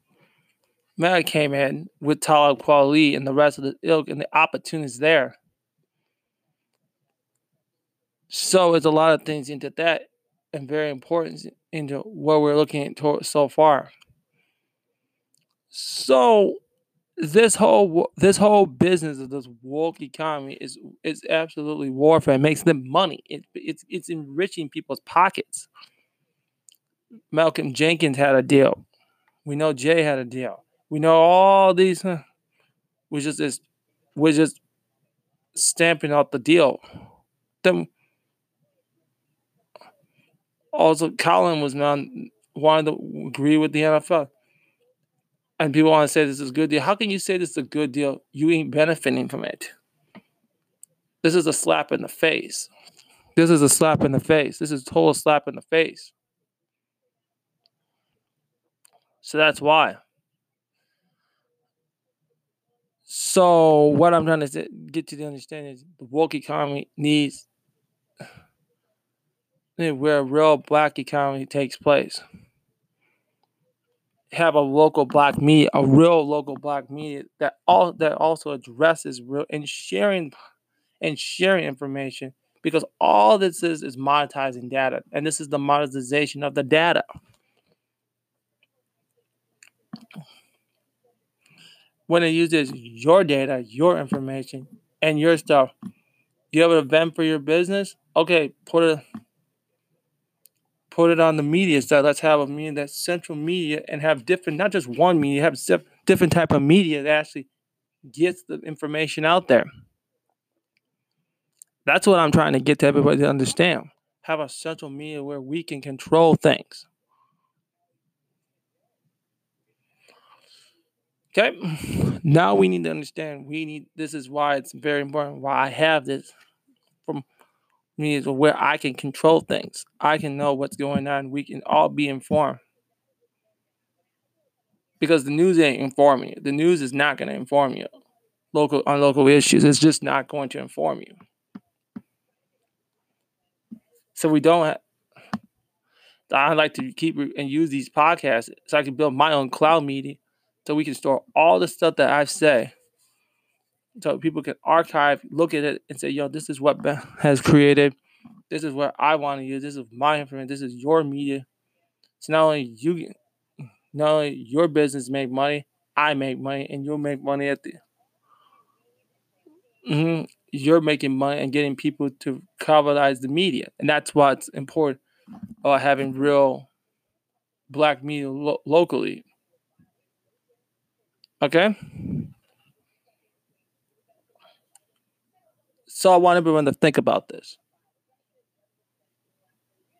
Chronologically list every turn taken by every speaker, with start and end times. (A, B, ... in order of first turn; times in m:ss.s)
0:01.0-0:05.4 A
0:08.3-0:13.9 A
0:15.7-0:16.6 A
0:17.2-0:25.7 A
0:27.3-0:28.8 A
0:29.4-0:32.2 A
0:33.1-0:33.6 A
0:34.2-0:34.6 A
0:35.6-0:36.8 A
0:37.6-0:37.9 A
0:40.7-0:44.3 A
0:45.6-0:49.7 A
0:51.2-0:52.7 A
0:53.4-0:56.1 A
0:59.2-1:00.0 A
1:03.1-1:07.5 A
1:09.8-1:12.2 A
1:14.3-1:20.3 A
1:21.0-1:27.0 A
1:32.1-1:35.7 A
1:36.5-1:39.0 A
1:40.9-1:47.5 A
1:48.1-1:49.7 A
1:51.9-1:56.9 A
2:01.3-2:06.3 A
2:08.0-2:12.6 A
2:15.0-2:17.9 A
2:18.5-2:21.1 A
2:24.2-2:24.8 A
2:26.3-2:32.7 A
2:34.0-2:38.0 A
2:38.5-2:41.5 A
2:42.2-2:43.1 A
2:43.9-2:47.8 A
2:49.9-2:55.0 A
2:55.6-2:56.7 A
2:57.7-2:59.2 A
3:01.4-3:02.3 A
3:05.9-3:07.6 A